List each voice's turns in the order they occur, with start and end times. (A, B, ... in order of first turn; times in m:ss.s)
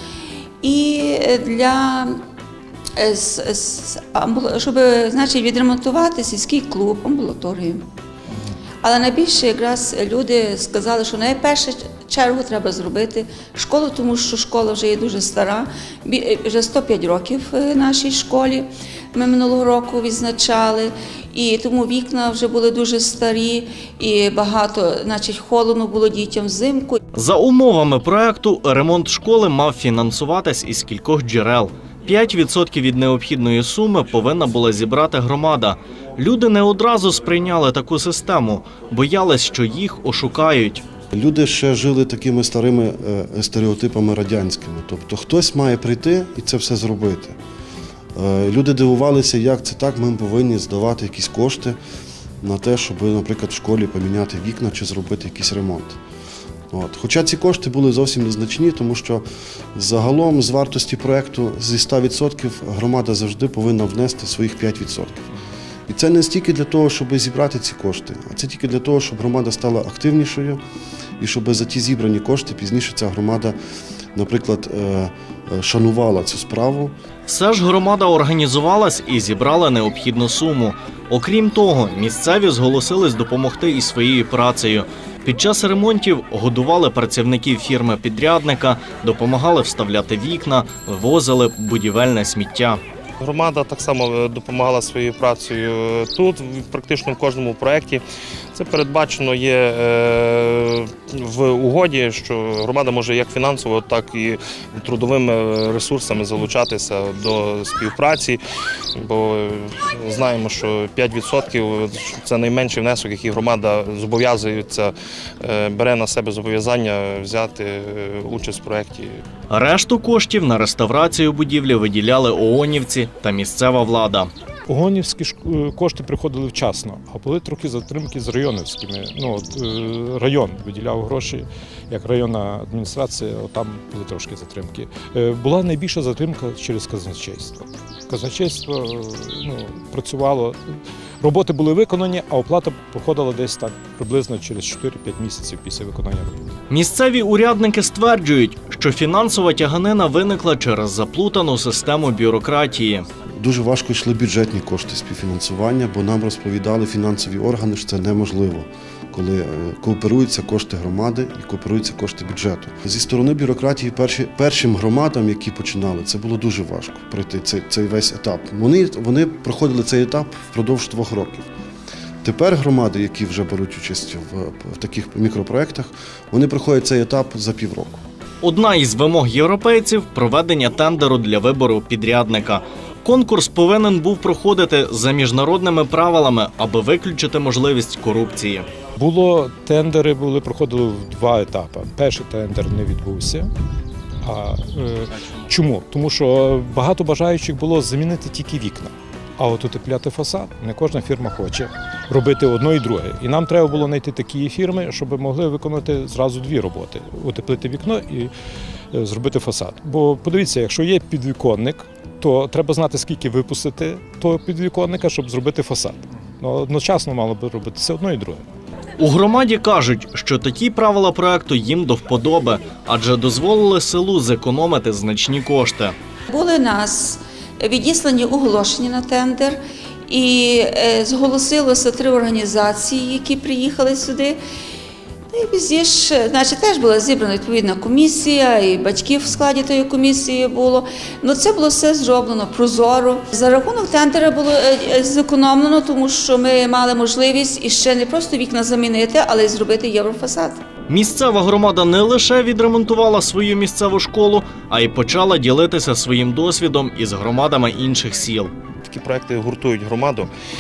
0:00.6-0:02.2 A
0:03.0-0:07.8 A
0:08.8-0:27.0 A
0:27.2-0:40.8 B
0:41.1-0:47.4 C
0:48.2-0:51.8 C
0:52.4-0:56.0 C
0:56.7-1:05.3 C
1:05.9-1:10.6 C
1:11.2-1:13.6 C
1:14.2-1:16.9 C
1:17.3-1:32.8 B
1:33.2-1:38.0 D
1:38.6-1:48.4 D
1:49.0-1:59.1 D
1:59.5-2:04.3 B
2:04.7-2:20.6 E
2:21.2-2:26.5 E
2:26.7-2:33.1 B
2:33.4-2:51.5 C
2:52.2-2:58.0 C
2:58.4-3:08.7 B
3:09.0-3:13.5 E
3:14.2-3:28.3 E
3:28.9-3:38.4 E
3:39.0-3:46.0 B
3:46.3-3:54.4 A
3:55.3-4:10.6 A
4:10.9-4:18.5 B
4:18.9-4:20.3 D